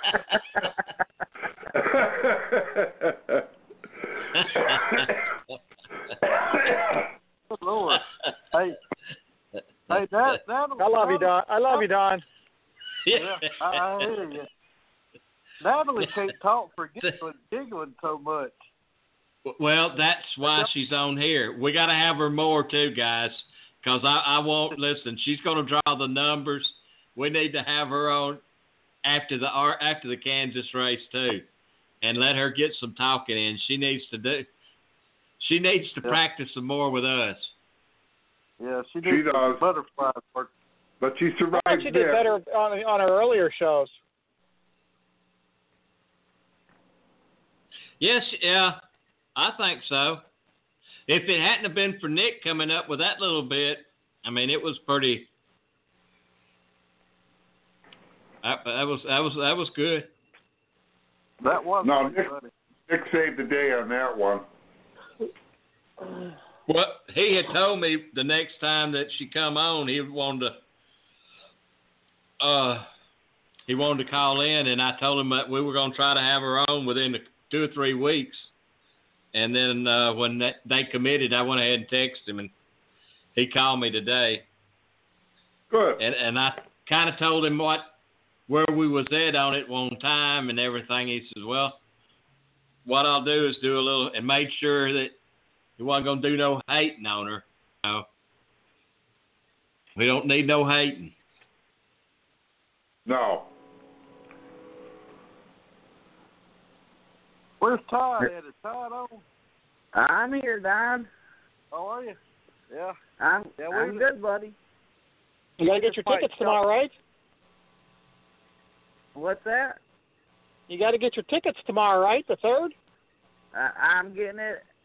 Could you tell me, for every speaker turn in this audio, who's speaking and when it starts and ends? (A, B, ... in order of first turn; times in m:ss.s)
0:01.8-0:03.4 A
0:04.4-0:05.1 B
0:07.5-0:08.8 C
0:09.9-0:11.8 C
0:10.8-0:12.2 D
0:13.1-0:14.1 B
0:13.1-0:14.5 C
0:15.6-0:18.6 C
0:19.5-0:28.4 B
0:20.4-0:20.7 C
0:29.0-0:31.5 B
0:32.0-0:34.5 B
0:35.4-0:37.5 B
0:38.6-0:40.5 C
0:39.0-0:39.6 A
0:41.0-0:42.2 A
0:41.5-0:43.9 D
0:48.0-0:48.8 B
0:49.4-0:50.2 B
0:51.1-0:55.3 B
0:58.4-1:00.1 B
1:01.4-1:02.5 C
1:01.8-1:02.3 A
1:02.9-1:04.4 A
1:06.7-1:10.6 B
1:12.4-1:12.9 B
1:13.7-1:18.5 B
1:19.3-1:22.5 B
1:23.4-1:24.5 B
1:25.7-1:26.0 A
1:26.0-1:27.9 B
1:28.5-1:31.8 B
1:32.9-1:35.1 B
1:35.8-1:38.1 B
1:40.0-1:41.1 B
1:43.1-1:43.5 A
1:47.6-1:49.2 C
1:50.0-1:51.1 E
1:51.7-1:52.2 C
1:53.2-1:54.6 E
1:53.6-1:54.0 C
1:55.6-1:56.9 D
1:55.7-1:56.6 E
1:59.2-1:59.8 E
2:00.7-2:02.7 D
2:03.5-2:04.6 E